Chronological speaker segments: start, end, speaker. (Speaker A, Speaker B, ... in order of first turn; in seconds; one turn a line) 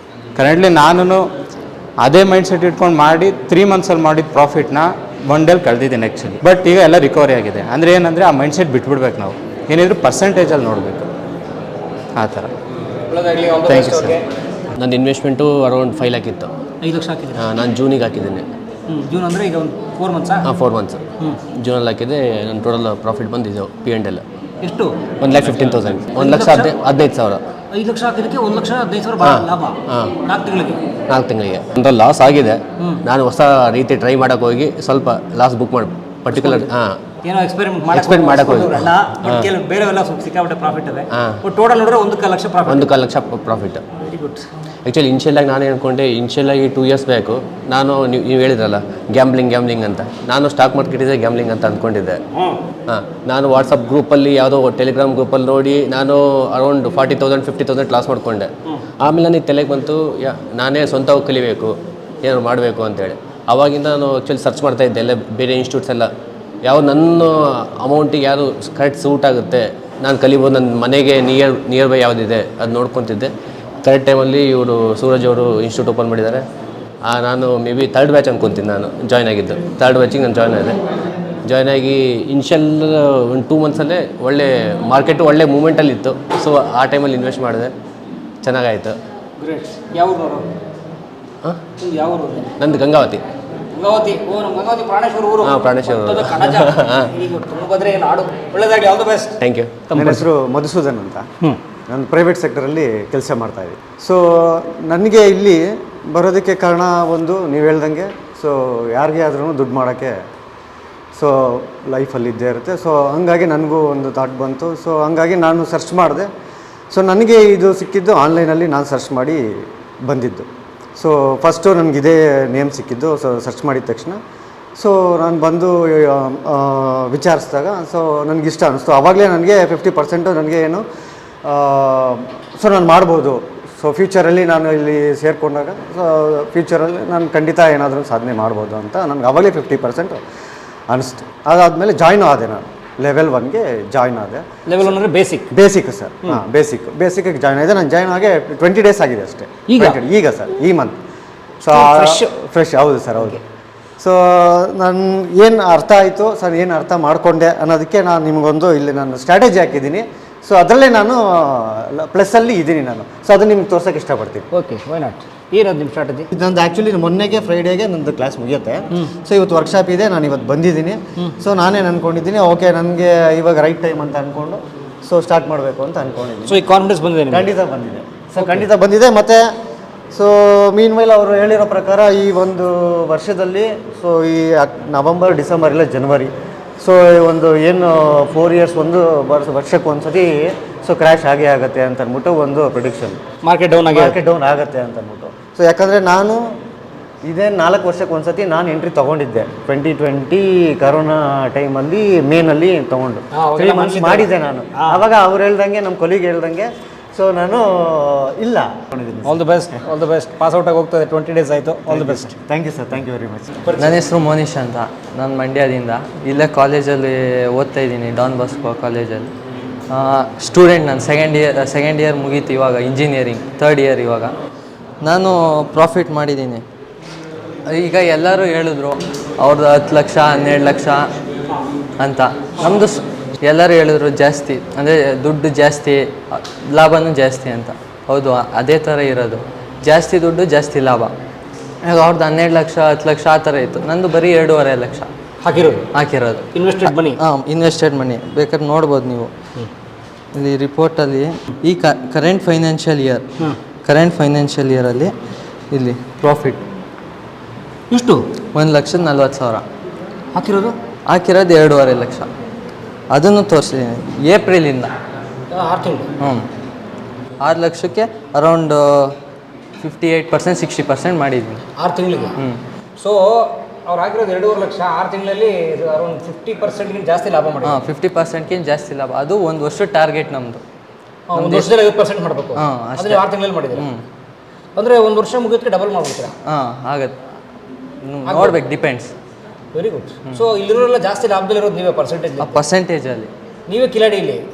Speaker A: 0.4-1.2
Speaker A: 2.0-11.1
Speaker A: 12.2-12.5
Speaker B: 13.1-14.2
Speaker A: 13.7-14.2
Speaker C: 14.8-16.5
Speaker B: 16.8-17.4
Speaker C: 17.3-18.5
Speaker B: 18.9-20.4
Speaker C: 20.4-21.0
Speaker C: 21.6-24.2
Speaker B: 24.6-25.6
Speaker C: 25.2-27.4
Speaker B: 26.2-26.7
Speaker B: 27.7-30.8
Speaker C: 29.2-30.2
Speaker C: 31.1-37.0
Speaker B: 36.3-36.7
Speaker B: 37.2-42.9
Speaker C: 37.9-39.5
Speaker C: 41.1-41.4
Speaker C: 42.7-44.0
Speaker B: 44.0-44.4
Speaker C: 44.9-52.2
Speaker C: 52.9-66.1
Speaker C: 66.6-73.3
Speaker C: 73.8-76.5
Speaker C: 77.0-80.8
Speaker C: 81.5-87.7
Speaker C: 88.4-89.0
Speaker B: 89.4-90.5
Speaker B: 91.8-92.5
Speaker C: 92.6-93.2
Speaker B: 93.7-99.4
Speaker C: 95.4-97.1
Speaker C: 99.4-99.8
Speaker B: 99.9-100.2
Speaker D: 99.9-101.3
Speaker D: 101.9-110.2
Speaker D: 111.2-116.3
Speaker D: 116.9-119.4
Speaker D: 120.1-124.2
Speaker D: 124.8-130.8
Speaker D: 131.4-140.2
Speaker D: 140.9-144.9
Speaker B: 144.7-145.5
Speaker D: 145.5-151.0
Speaker B: 149.7-150.0
Speaker D: 151.6-153.4
Speaker B: 151.7-152.3
Speaker D: 154.0-164.5
Speaker B: 164.5-166.3
Speaker D: 166.3-176.6
Speaker B: 176.5-177.5
Speaker D: 177.3-179.4
Speaker B: 178.4-178.6
Speaker D: 180.1-193.2
Speaker B: 193.4-194.2
Speaker D: 193.9-196.4
Speaker D: 197.2-209.5
Speaker B: 203.3-205.0
Speaker B: 209.2-212.3
Speaker D: 211.9-213.5
Speaker B: 213.7-214.0
Speaker E: 213.8-219.3
Speaker E: 219.9-224.3
Speaker E: 225.0-226.6
Speaker E: 227.7-231.1
Speaker E: 232.0-241.1
Speaker E: 241.8-245.1
Speaker B: 245.4-245.9
Speaker E: 245.9-249.3
Speaker B: 246.5-247.2
Speaker E: 250.3-253.2
Speaker E: 253.8-255.1
Speaker E: 255.7-256.6
Speaker B: 257.9-258.2
Speaker E: 258.5-259.6
Speaker B: 260.3-260.7
Speaker E: 261.1-262.3
Speaker E: 263.1-264.9
Speaker B: 265.5-266.1
Speaker E: 266.2-266.5
Speaker E: 267.4-269.1
Speaker E: 269.8-271.6
Speaker B: 271.8-272.3
Speaker B: 273.0-277.8
Speaker E: 277.6-280.6
Speaker B: 281.3-283.8
Speaker E: 281.3-281.8
Speaker E: 282.6-284.0
Speaker B: 284.8-286.3
Speaker E: 286.5-287.2
Speaker E: 288.1-289.1
Speaker B: 288.3-288.6
Speaker B: 289.7-292.6
Speaker E: 292.4-293.3
Speaker B: 293.7-294.4